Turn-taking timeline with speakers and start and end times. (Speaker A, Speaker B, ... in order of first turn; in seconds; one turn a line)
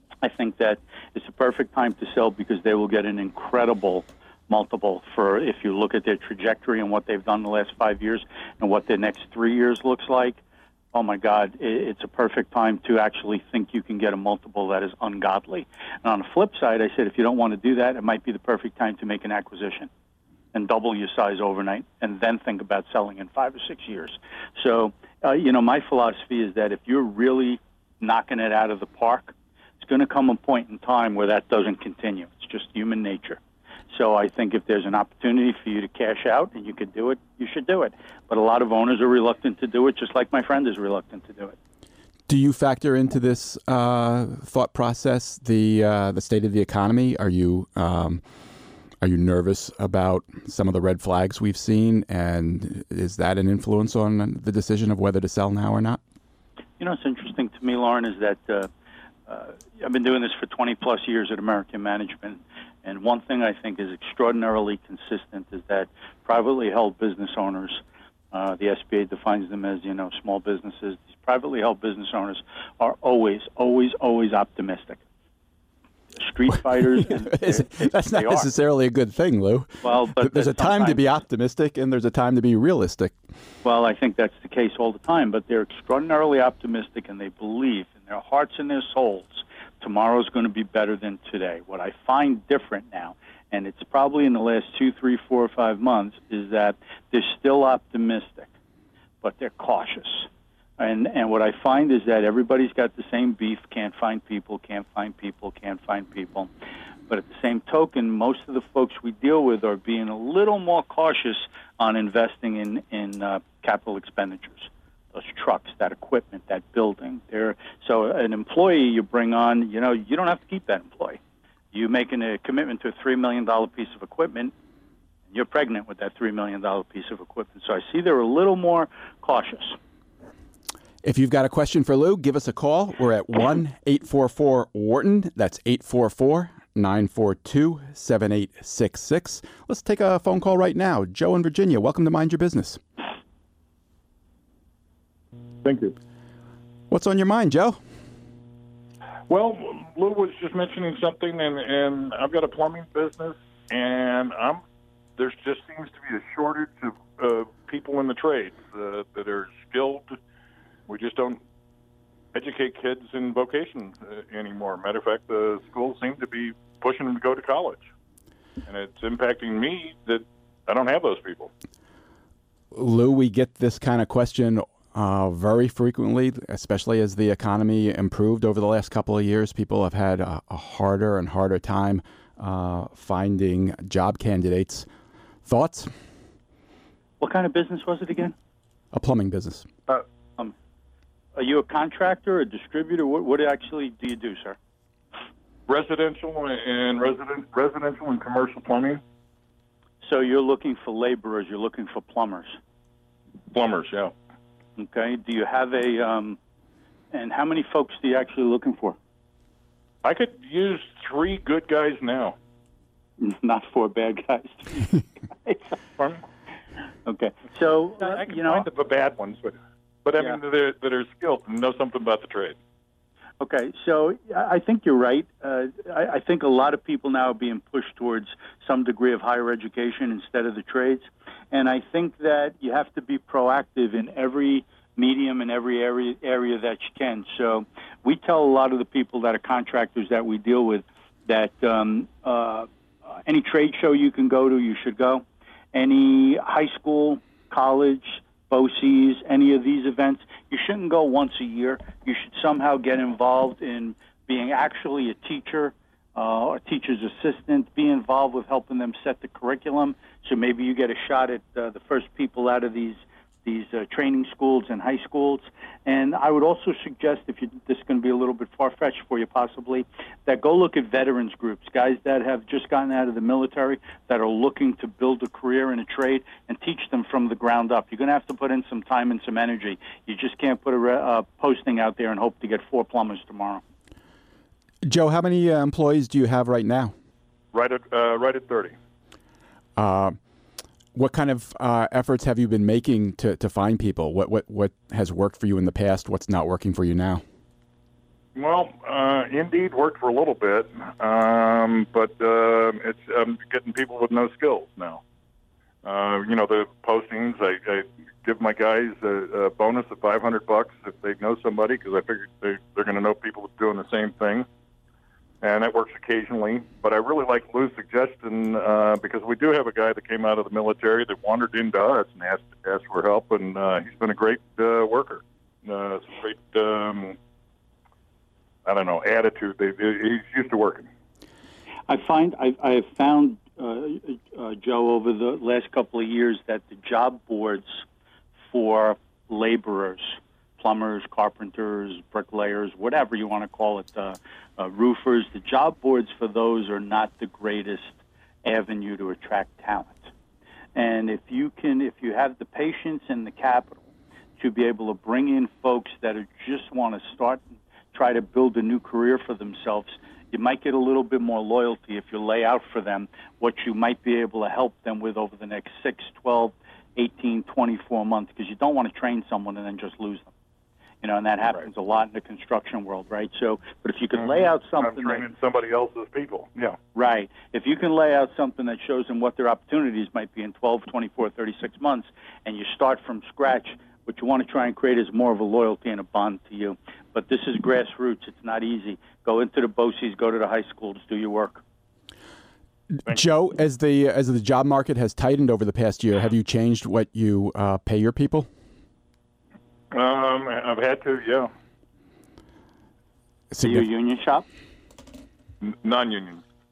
Speaker A: 0.2-10.4
Speaker A: 10.9-19.9
Speaker A: 20.5-33.4
Speaker A: 33.9-41.6
Speaker B: 42.3-48.2
Speaker B: 49.0-56.0
Speaker A: 56.8-58.7
Speaker A: 59.3-67.8
Speaker A: 68.3-75.0
Speaker A: 76.1-78.5
Speaker B: 77.0-83.1
Speaker A: 79.8-81.0
Speaker A: 83.6-98.5
Speaker A: 99.2-100.3
Speaker A: 100.8-106.5
Speaker A: 107.1-121.2
Speaker A: 121.7-124.5
Speaker A: 125.3-129.8
Speaker B: 131.0-142.8
Speaker C: 145.6-145.9
Speaker B: 146.9-147.8
Speaker C: 149.3-154.6
Speaker C: 155.2-160.2
Speaker C: 160.9-161.4
Speaker C: 162.3-167.9
Speaker C: 168.7-171.5
Speaker B: 172.7-184.9
Speaker B: 185.5-185.9
Speaker A: 187.2-188.3
Speaker B: 188.9-189.7
Speaker A: 191.3-194.6
Speaker C: 195.7-199.0
Speaker A: 200.0-202.6
Speaker C: 203.5-204.1
Speaker A: 204.8-206.4
Speaker A: 207.1-209.0
Speaker C: 210.0-212.4
Speaker A: 213.2-215.7
Speaker A: 217.1-218.7
Speaker C: 218.0-222.6
Speaker A: 223.4-242.7
Speaker A: 243.3-283.6
Speaker B: 284.8-286.9
Speaker C: 287.5-288.8
Speaker B: 289.8-290.2
Speaker B: 290.9-297.2
Speaker C: 298.4-305.0
Speaker C: 305.8-314.5
Speaker C: 315.4-327.2
Speaker C: 328.6-330.9
Speaker A: 331.9-337.8
Speaker A: 338.5-350.1
Speaker A: 350.8-353.8
Speaker A: 354.4-370.3
Speaker A: 371.0-375.3
Speaker C: 374.2-376.8
Speaker A: 376.9-391.6
Speaker B: 393.0-398.5
Speaker C: 399.9-401.5
Speaker B: 403.5-403.9
Speaker A: 403.6-404.5
Speaker C: 405.6-406.4